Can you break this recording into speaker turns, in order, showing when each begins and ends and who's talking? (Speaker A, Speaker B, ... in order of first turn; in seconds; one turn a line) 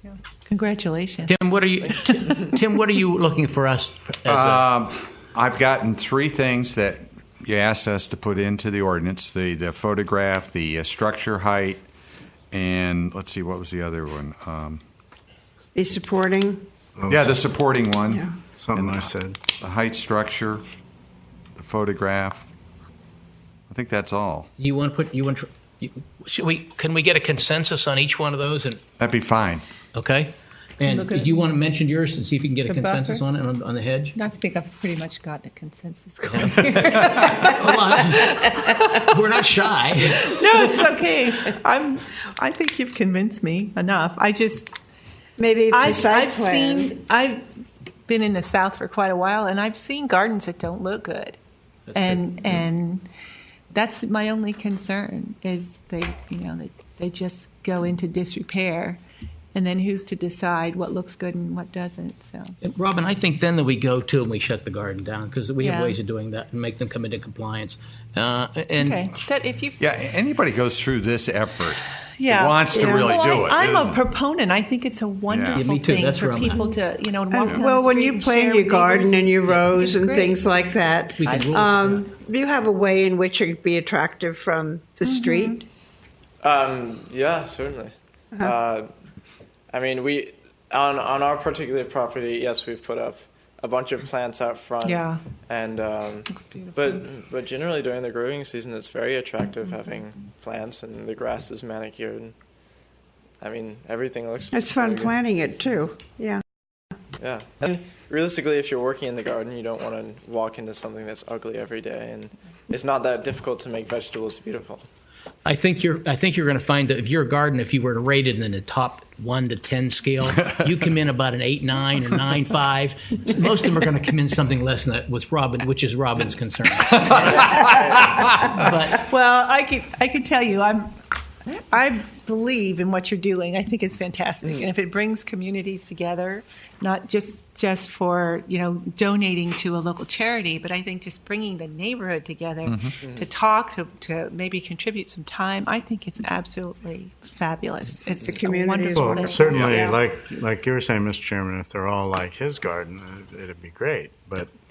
Speaker A: 0.5-1.3
Speaker B: 1.3-4.7
Speaker C: 4.3-11.8
Speaker C: 12.5-14.8
Speaker D: 15.7-16.6
Speaker E: 17.0-17.4
Speaker C: 17.1-20.6
Speaker E: 18.5-19.4
Speaker C: 21.6-22.5
Speaker C: 23.7-24.5
Speaker B: 24.6-28.8
Speaker C: 29.0-29.6
Speaker B: 29.9-34.1
Speaker A: 30.9-31.4
Speaker A: 32.7-33.2
Speaker A: 34.1-37.8
Speaker B: 36.3-40.8
Speaker A: 40.4-44.7
Speaker D: 45.4-46.9
Speaker A: 45.7-47.4
Speaker A: 48.1-51.4
Speaker B: 51.9-52.6
Speaker A: 51.9-53.0
Speaker A: 53.7-59.0
Speaker A: 59.5-62.4
Speaker B: 62.6-69.1
Speaker A: 65.6-66.0
Speaker A: 68.8-69.8
Speaker C: 69.8-74.0
Speaker A: 72.3-72.6
Speaker D: 72.7-73.1
Speaker A: 73.1-80.3
Speaker C: 75.3-75.6
Speaker B: 75.5-76.6
Speaker D: 77.3-85.6
Speaker B: 81.2-82.1
Speaker A: 81.3-81.5
Speaker A: 85.1-85.5
Speaker F: 86.4-88.9
Speaker F: 89.7-102.3
Speaker A: 94.9-95.2
Speaker F: 103.4-105.2
Speaker D: 104.5-106.4
Speaker F: 107.2-114.8
Speaker B: 115.4-129.1
Speaker F: 127.6-128.0
Speaker A: 129.1-130.9
Speaker A: 131.6-149.8
Speaker C: 142.6-143.0
Speaker F: 143.0-143.3
Speaker D: 148.2-150.0
Speaker E: 148.9-154.5